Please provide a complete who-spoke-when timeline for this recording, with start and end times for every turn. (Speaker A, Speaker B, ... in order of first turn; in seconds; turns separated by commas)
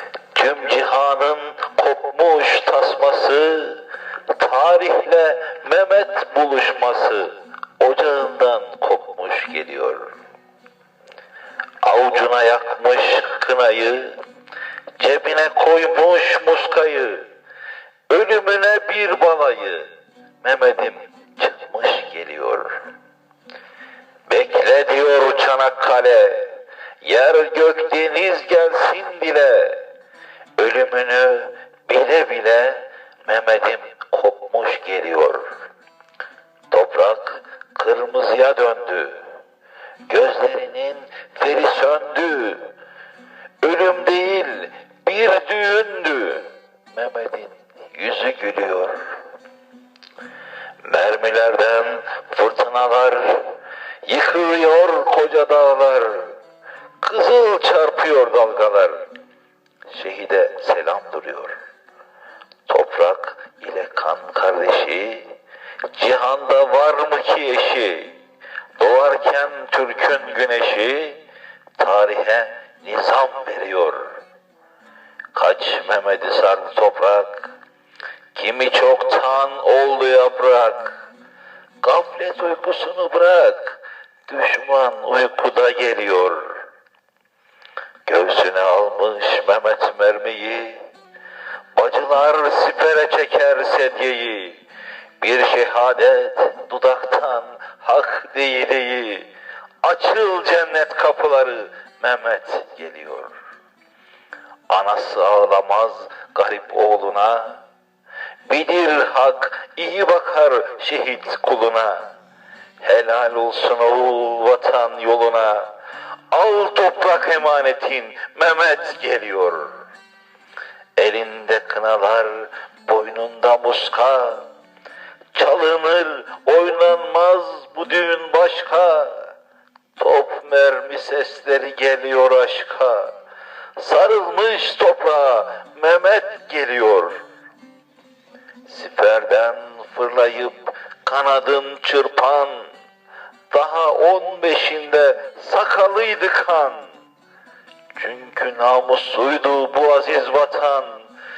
Speaker A: 0.3-10.1, Speaker A: 11.8-14.2, Speaker A: 15.0-17.2, Speaker A: 18.1-19.9, Speaker A: 20.4-22.8, Speaker A: 24.3-29.8, Speaker A: 30.6-35.4, Speaker A: 36.7-39.3, Speaker A: 40.1-42.7, Speaker A: 43.6-49.1, Speaker A: 50.8-53.5, Speaker A: 54.0-56.3, Speaker A: 57.0-59.0, Speaker A: 59.9-61.5, Speaker A: 62.7-65.3, Speaker A: 65.9-68.1, Speaker A: 68.8-71.2, Speaker A: 71.8-74.2, Speaker A: 75.3-77.5, Speaker A: 78.3-81.0, Speaker A: 81.8-86.6, Speaker A: 88.0-90.8, Speaker A: 91.7-94.6, Speaker A: 95.2-99.3, Speaker A: 99.8-103.3, Speaker A: 104.7-107.6, Speaker A: 108.4-112.0, Speaker A: 112.8-115.7, Speaker A: 116.3-119.8, Speaker A: 121.0-124.4, Speaker A: 125.3-129.3, Speaker A: 130.0-133.1, Speaker A: 133.8-137.1, Speaker A: 138.7-142.7, Speaker A: 143.5-146.9, Speaker A: 147.9-151.1